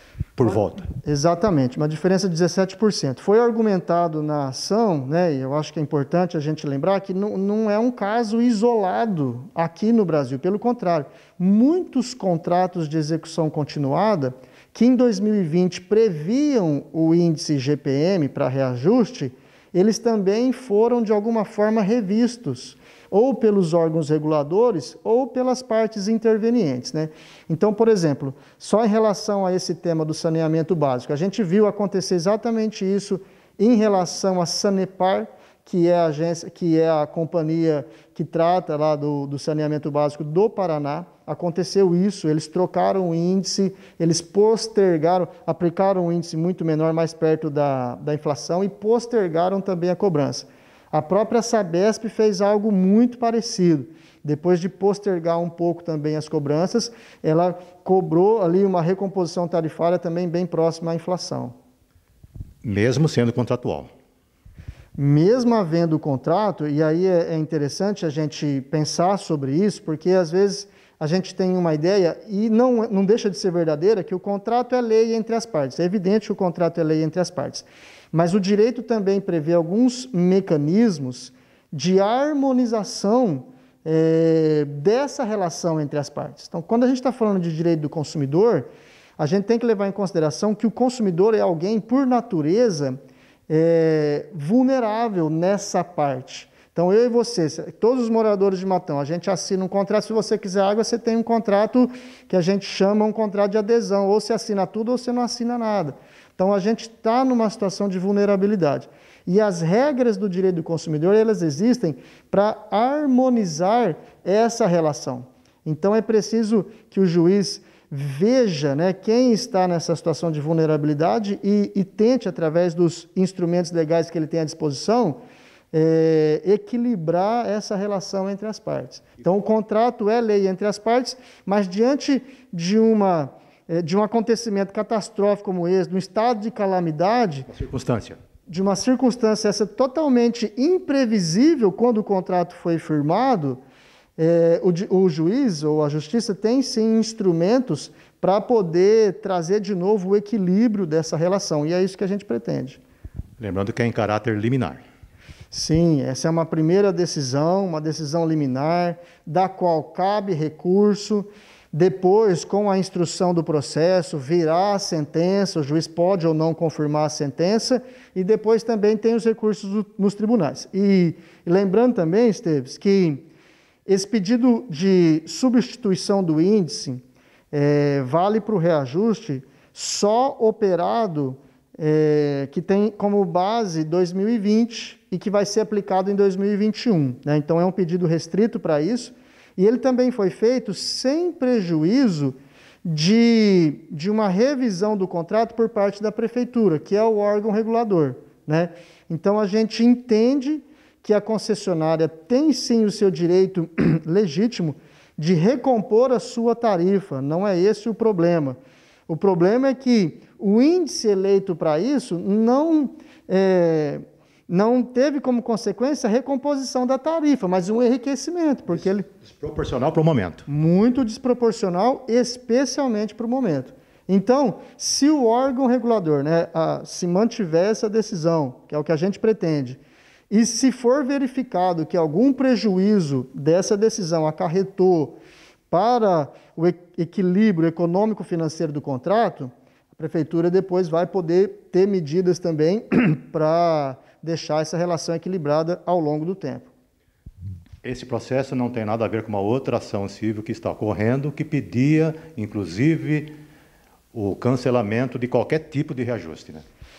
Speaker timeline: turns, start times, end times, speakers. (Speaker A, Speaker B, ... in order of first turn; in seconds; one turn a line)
Speaker A: 0.4-0.8
Speaker B: 0.5-61.5
Speaker A: 62.6-63.9
Speaker B: 65.0-125.2
Speaker B: 125.7-137.5
Speaker A: 137.5-138.2
Speaker B: 138.5-143.6
Speaker B: 144.2-152.8
Speaker A: 153.4-154.8
Speaker B: 155.5-173.2
Speaker B: 173.8-219.1
Speaker A: 219.2-220.4
Speaker B: 220.5-235.2
Speaker B: 235.7-246.7
Speaker A: 247.8-253.3
Speaker A: 254.1-256.6